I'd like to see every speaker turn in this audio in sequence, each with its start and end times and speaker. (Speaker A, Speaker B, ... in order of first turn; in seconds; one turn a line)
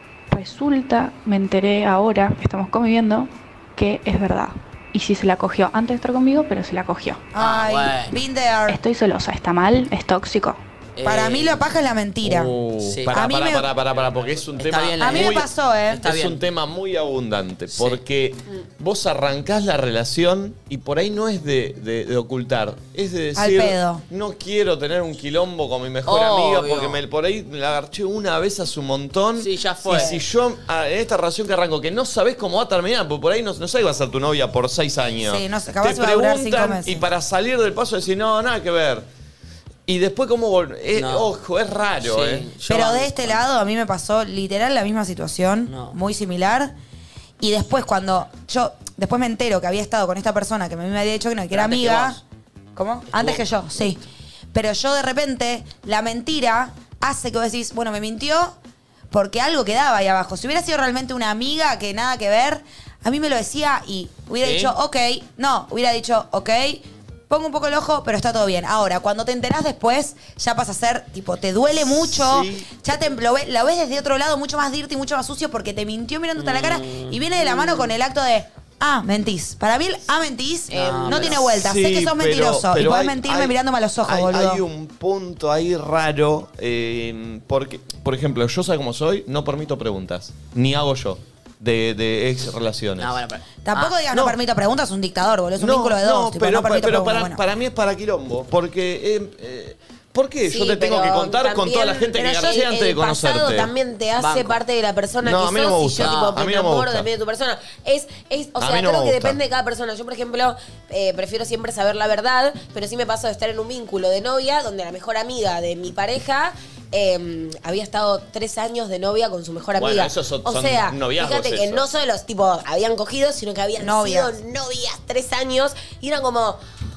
Speaker A: 0.3-7.3
Speaker B: 7.3-8.8
Speaker C: 7.4-8.2
Speaker A: 8.7-10.6
Speaker C: 11.0-11.6
Speaker B: 11.0-12.5
Speaker D: 12.2-15.5
Speaker C: 12.8-13.1
Speaker B: 13.1-13.7
Speaker C: 14.5-16.4
Speaker B: 15.0-16.0
Speaker D: 16.0-39.0
Speaker C: 17.7-18.0
Speaker B: 23.3-24.0
Speaker C: 26.1-27.0
Speaker C: 29.4-30.2
Speaker B: 35.2-37.0
Speaker D: 39.9-42.5
Speaker C: 40.9-41.3
Speaker C: 42.0-43.4
Speaker B: 42.7-46.7
Speaker C: 45.7-46.0
Speaker B: 47.4-52.2
Speaker C: 51.5-52.2
Speaker B: 52.7-54.0
Speaker C: 53.1-53.4
Speaker B: 54.5-58.5
Speaker B: 59.1-84.6
Speaker C: 64.4-64.8
Speaker D: 71.9-72.7
Speaker C: 76.4-77.2
Speaker C: 80.7-81.4
Speaker E: 80.7-81.5
Speaker D: 81.5-83.5
Speaker D: 84.0-93.2
Speaker C: 93.0-94.0
Speaker B: 93.6-97.4
Speaker D: 95.6-103.7
Speaker E: 100.5-126.6
Speaker C: 104.2-104.6
Speaker D: 105.2-107.1
Speaker C: 106.0-106.4
Speaker D: 108.6-109.4
Speaker D: 119.7-121.9
Speaker B: 123.8-124.3